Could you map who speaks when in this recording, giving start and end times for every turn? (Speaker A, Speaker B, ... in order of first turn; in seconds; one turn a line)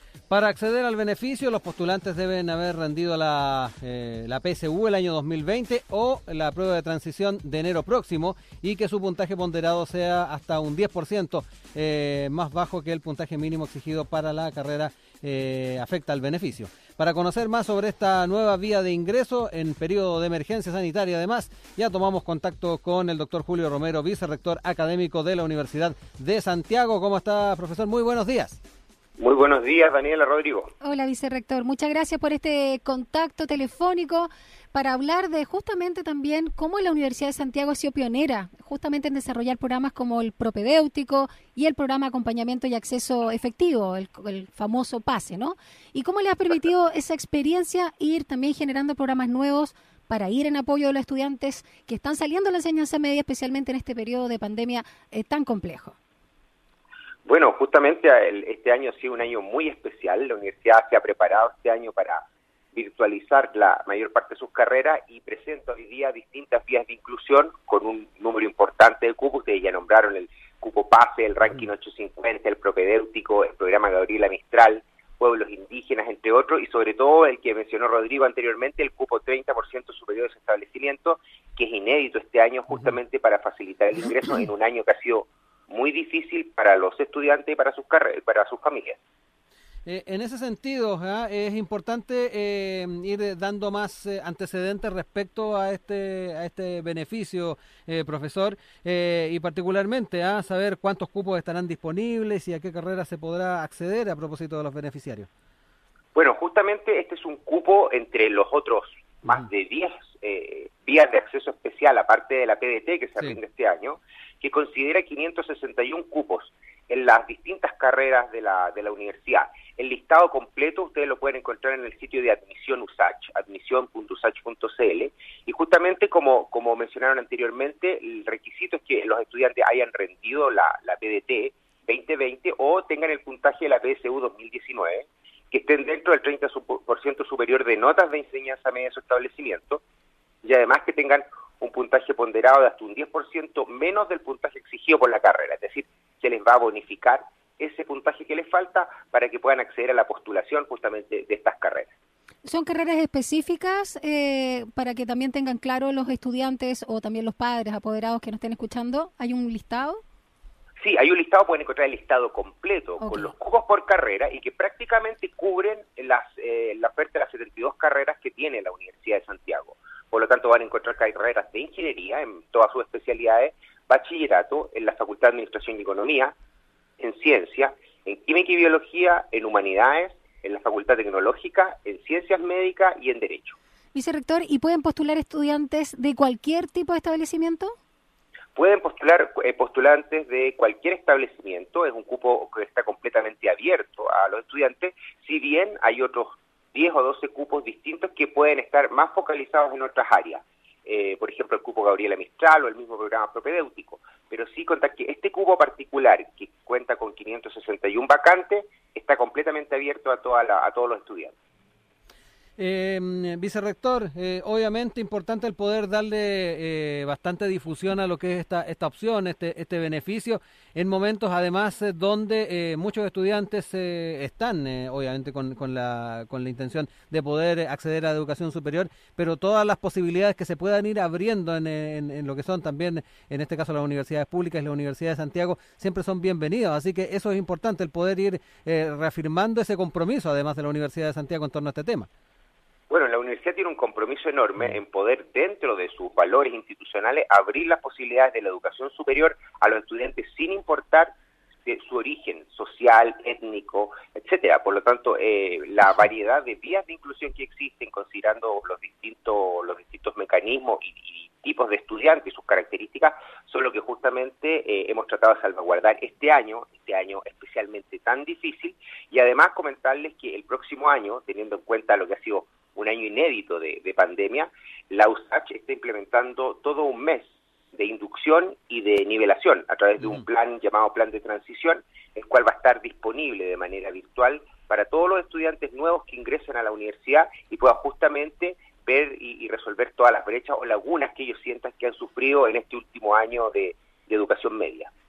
Speaker A: 0.3-28.6
Speaker B: 29.2-30.7
Speaker C: 30.8-56.0
Speaker B: 57.2-89.0
Speaker A: 89.8-105.3
Speaker B: 106.1-139.8
Speaker B: 140.4-151.9
Speaker C: 152.4-160.0
Speaker B: 160.8-176.3
Speaker C: 163.0-163.3
Speaker B: 177.0-183.6
Speaker C: 183.9-187.7
Speaker B: 188.5-211.3
Speaker A: 212.6-242.1
Speaker B: 242.9-251.1
Speaker B: 251.6-294.9